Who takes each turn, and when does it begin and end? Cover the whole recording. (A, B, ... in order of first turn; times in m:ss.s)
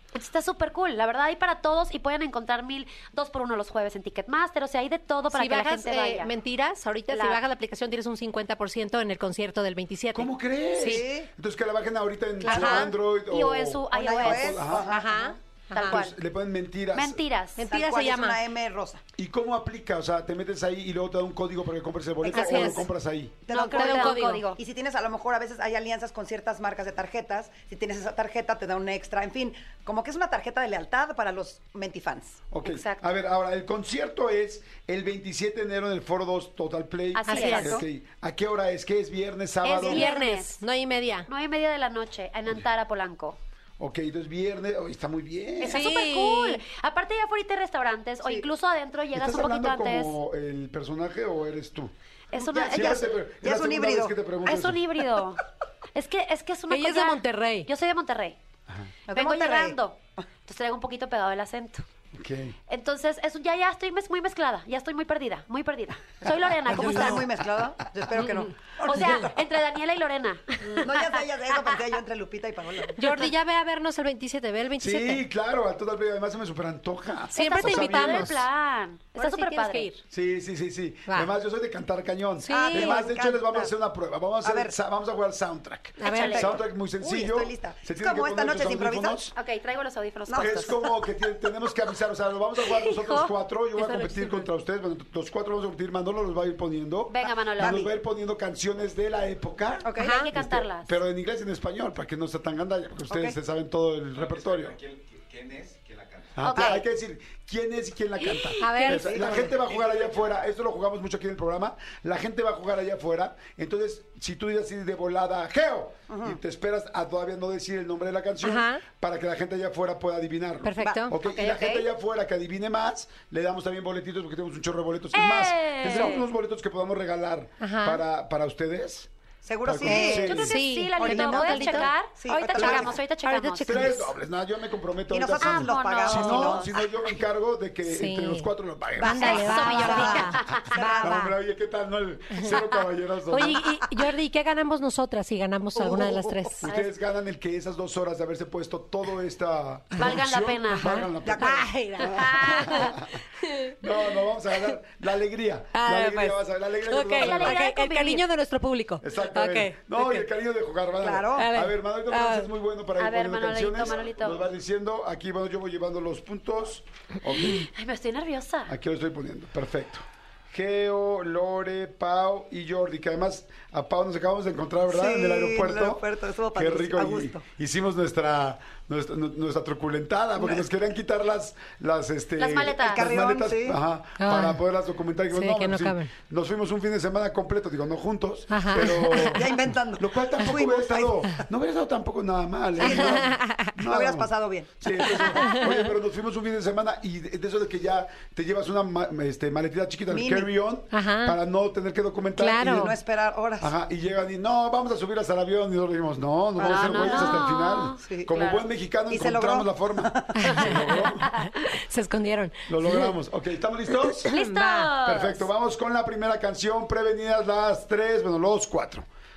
0:00.1-0:06.3 A
0:05.3-0:11.0 B
0:07.1-0:07.4 A
0:10.1-0:14.9 C
0:10.8-0:11.3 D
0:12.4-0:12.9 B
0:12.5-0:14.7 A
0:13.9-0:15.4 D
0:14.9-0:16.0 B
0:15.7-0:16.2 A
0:15.8-0:17.2 C
0:16.9-0:17.6 A
0:17.6-0:18.4 B
0:17.6-0:19.0 D
0:19.2-0:23.4 C
0:22.2-0:22.9 D
0:22.3-0:22.9 B
0:23.4-0:32.4 D
0:23.5-0:24.5 A
0:23.6-0:24.6 B
0:32.5-0:40.1 C
0:32.6-0:33.1 A
0:37.2-0:37.8 A
0:37.3-0:37.8 B
0:37.5-0:37.8 D
0:39.6-0:40.6 A
0:39.7-0:41.3 B
0:41.3-0:43.4 A
0:43.8-0:45.9 C
0:45.6-0:50.2 A
0:45.7-0:46.6 B
0:49.1-0:51.9 C
0:52.3-0:53.0 A
0:52.4-0:54.2 D
0:52.7-0:54.9 C
0:54.4-0:58.4 A
0:56.7-0:57.7 B
0:59.1-0:59.8 D
0:59.1-1:01.9 A
1:02.1-1:02.6 C
1:02.7-1:07.3 A
1:06.7-1:09.4 D
1:08.2-1:08.4 B
1:08.8-1:11.8 A
1:10.6-1:13.2 D
1:13.0-1:15.2 B
1:14.8-1:18.4 C
1:17.3-1:18.4 B
1:17.3-1:19.9 A
1:19.2-1:20.0 B
1:20.1-1:29.4 C
1:21.1-1:21.3 B
1:22.4-1:23.0 B
1:22.5-1:23.7 D
1:24.4-1:24.7 D
1:26.0-1:26.6 B
1:26.0-1:26.5 A
1:26.1-1:29.3 D
1:29.4-1:30.8 A
1:30.3-1:30.9 D
1:30.4-1:44.8 C
1:32.7-1:34.5 B
1:37.1-1:37.9 A
1:37.2-1:37.9 D
1:39.8-1:40.2 D
1:40.0-1:40.3 B
1:40.0-1:41.0 A
1:43.1-1:43.4 D
1:44.2-1:46.4 E
1:46.4-2:09.1 C
1:46.4-1:46.8 A
1:46.5-1:46.8 D
1:48.6-1:49.2 B
1:48.8-1:49.5 D
1:49.5-1:50.4 E
1:56.1-1:56.4 D
1:58.4-1:58.8 B
2:00.6-2:01.2 B
2:00.8-2:01.0 D
2:01.2-2:01.9 A
2:05.1-2:06.3 A
2:07.6-2:08.0 B
2:09.4-2:13.0 D
2:09.6-2:10.5 C
2:09.8-2:11.9 B
2:10.0-2:14.0 A
2:12.6-2:14.1 B
2:13.6-2:23.6 C
2:15.1-2:16.8 D
2:15.4-2:16.7 A
2:17.9-2:21.4 B
2:19.0-2:21.2 D
2:19.1-2:20.9 A
2:22.3-2:22.6 B
2:23.3-2:26.7 B
2:25.8-2:26.4 D
2:26.6-2:37.6 C
2:26.6-2:26.9 A
2:30.0-2:31.0 A
2:30.7-2:33.8 B
2:31.2-2:31.7 D
2:35.7-2:40.2 B
2:37.1-2:38.2 A
2:39.0-2:47.7 C
2:41.0-2:41.5 D
2:41.4-2:42.5 B
2:43.0-2:44.4 A
2:47.4-2:48.7 A
2:48.7-2:56.0 C
2:54.9-2:57.4 D
2:56.6-3:23.0 C
3:00.4-3:00.7 D
3:02.4-3:03.1 A
3:02.8-3:03.8 D
3:04.2-3:04.6 B
3:05.3-3:06.1 B
3:08.5-3:09.5 B
3:09.3-3:11.4 D
3:12.8-3:15.6 D
3:12.8-3:13.8 B
3:15.4-3:15.8 B
3:20.1-3:20.5 D
3:20.9-3:21.4 B
3:22.4-3:23.0 B
3:22.6-3:23.7 D
3:23.6-3:31.3 C
3:26.6-3:27.4 D
3:26.7-3:28.6 A
3:28.0-3:28.4 D
3:29.1-3:30.4 D
3:30.4-3:33.1 B
3:32.7-3:34.3 C
3:34.3-3:35.0 B
3:34.3-3:35.5 A
3:35.0-3:39.1 C